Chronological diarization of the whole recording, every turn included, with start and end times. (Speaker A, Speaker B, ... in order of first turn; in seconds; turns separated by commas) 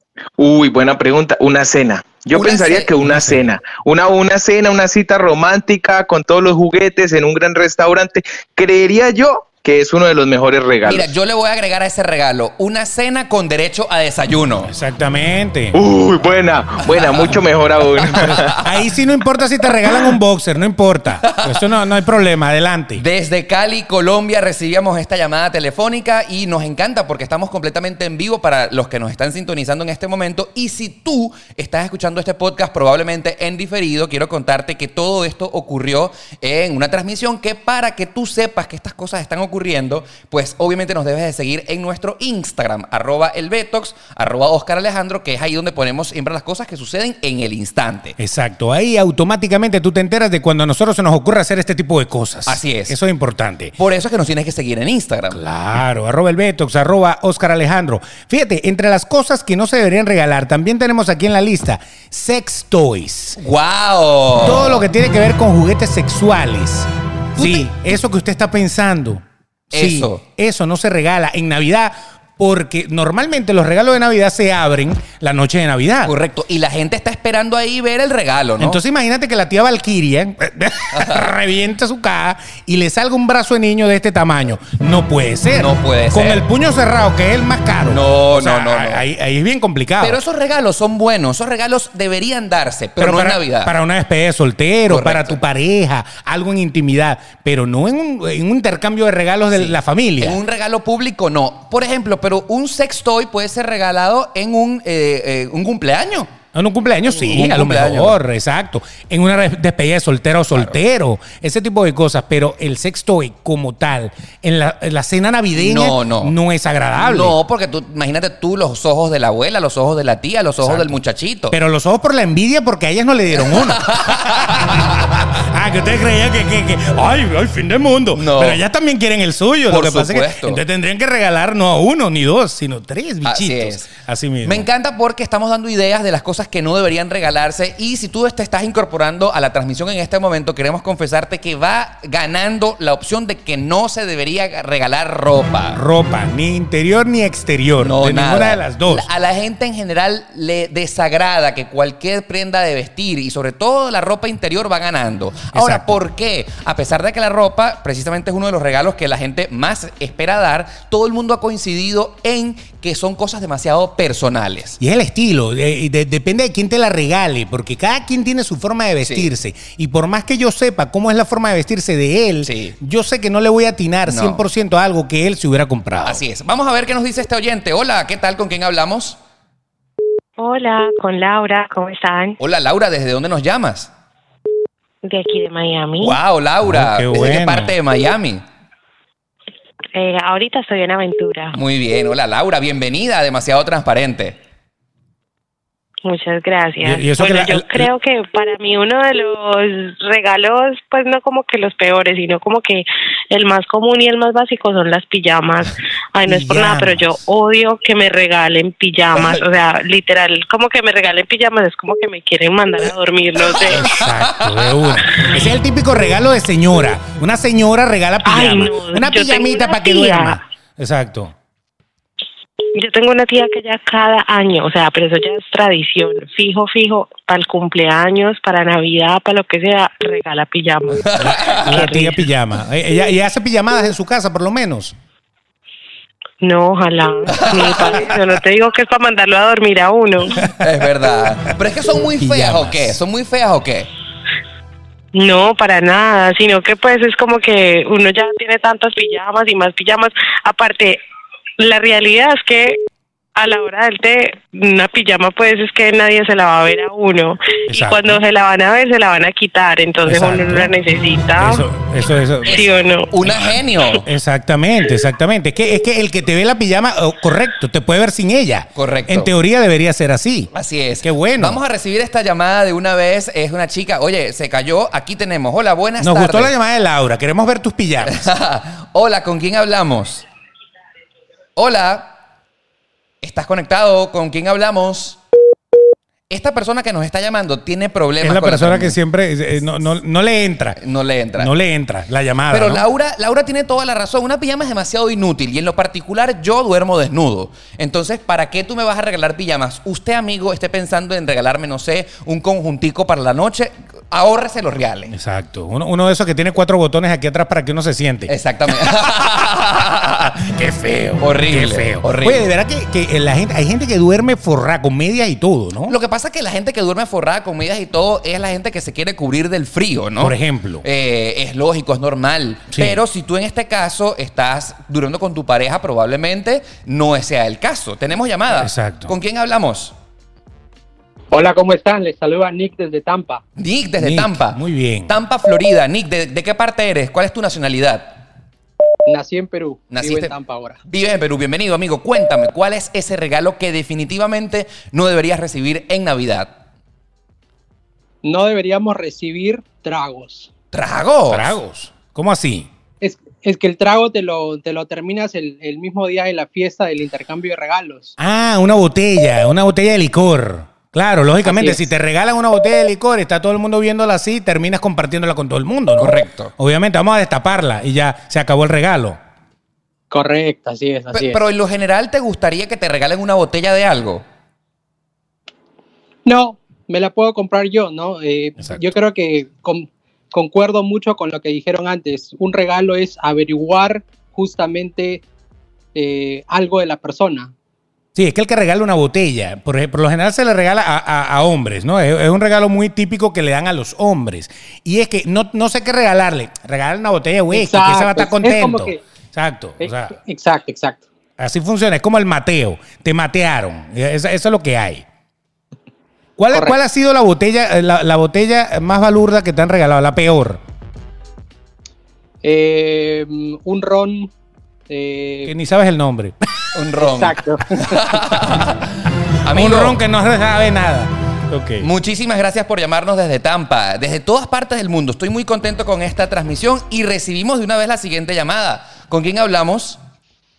Speaker A: 0.4-11.1, Speaker B: 2.3-2.9, Speaker C: 3.0-3.4, Speaker B: 10.8-14.7, Speaker C: 14.7-15.8, Speaker A: 15.7-18.5, Speaker B: 16.9-17.3, Speaker C: 18.0-23.0, Speaker B: 18.1-18.7, Speaker B: 21.2-21.6, Speaker B: 23.0-48.2, Speaker C: 48.2-53.8, Speaker B: 52.5-53.0, Speaker B: 53.8-55.4, Speaker C: 55.3-63.4, Speaker B: 63.4-64.8, Speaker C: 64.4-76.1, Speaker B: 67.4-67.7, Speaker B: 69.7-70.2, Speaker B: 76.0-78.8, Speaker C: 78.6-90.2, Speaker B: 80.9-81.3, Speaker B: 85.5-86.4, Speaker B: 87.8-89.0, Speaker B: 90.0-93.7, Speaker C: 93.0-100.4, Speaker B: 94.9-95.4, Speaker B: 99.5-106.3, Speaker C: 106.5-117.3, Speaker B: 107.1-108.2, Speaker B: 115.5-116.3, Speaker B: 116.9-121.5, Speaker C: 120.6-121.0, Speaker C: 121.5-134.7, Speaker B: 123.4-125.1, Speaker B: 128.1-128.6, Speaker B: 129.7-130.6, Speaker B: 133.2-133.9, Speaker B: 134.4-145.8, Speaker C: 145.7-149.1, Speaker B: 147.8-164.8, Speaker C: 155.5-156.0, Speaker C: 164.8-176.2, Speaker B: 169.0-169.3, Speaker B: 172.4-172.8, Speaker B: 174.1-174.4, Speaker B: 176.0-179.2, Speaker D: 180.4-182.4, Speaker B: 182.4-183.9, Speaker D: 185.0-186.2, Speaker B: 186.0-188.4, Speaker C: 186.6-187.7, Speaker D: 189.9-191.6, Speaker B: 191.5-194.4, Speaker D: 196.0-213.9, Speaker C: 196.8-197.9, Speaker C: 206.3-207.1, Speaker B: 213.6-214.3, Speaker C: 213.7-221.3, Speaker D: 218.2-220.4, Speaker D: 222.7-232.2, Speaker B: 231.0-232.0, Speaker C: 231.2-234.9, Speaker D: 236.4-240.4, Speaker B: 237.3-238.0, Speaker B: 240.5-243.9, Speaker C: 242.2-243.0, Speaker D: 245.1-251.0, Speaker D: 251.6-252.8, Speaker D: 253.3-261.6, Speaker C: 257.7-258.1, Speaker C: 260.1-260.7, Speaker C: 261.4-262.6, Speaker B: 262.4-264.0, Speaker D: 262.5-263.1, Speaker C: 264.0-270.5, Speaker B: 268.8-269.3, Speaker B: 270.5-276.5, Speaker C: 271.0-271.6, Speaker C: 276.0-278.2, Speaker B: 278.1-280.2, Speaker B: 281.6-282.1, Speaker B: 283.2-285.2, Speaker B: 286.3-289.0, Speaker C: 288.2-290.8, Speaker B: 290.8-291.5, Speaker C: 291.4-292.8, Speaker B: 292.5-305.1, Speaker C: 305.1-309.1, Speaker B: 308.3-310.5, Speaker C: 310.5-315.9, Speaker B: 311.2-312.5, Speaker B: 315.9-329.9, Speaker C: 320.2-320.8, Speaker C: 322.7-323.0, Speaker C: 328.5-329.1, Speaker E: 331.3-333.4, Speaker B: 333.6-338.1, Speaker C: 334.0-335.1, Speaker E: 339.1-340.8, Speaker B: 339.9-340.3, Speaker B: 340.8-346.5, Speaker E: 348.2-350.5, Speaker B: 350.7-351.6, Speaker C: 351.3-352.7, Speaker E: 353.0-358.1, Speaker C: 358.2-369.2, Speaker E: 361.4-361.8, Speaker B: 366.0-366.5, Speaker E: 370.1-371.4, Speaker B: 371.1-374.2, Speaker E: 376.2-385.2, Speaker E: 385.9-387.5, Speaker C: 388.1-400.1, Speaker E: 397.5-399.0, Speaker E: 399.8-401.0, Speaker C: 401.4-405.0, Speaker C: 406.4-410.6, Speaker E: 406.5-406.8, Speaker E: 412.4-414.3, Speaker E: 414.9-415.5, Speaker C: 415.4-416.4, Speaker B: 416.7-418.9, Speaker E: 417.0-417.6, Speaker B: 419.4-420.0, Speaker C: 419.5-421.9, Speaker B: 421.8-430.0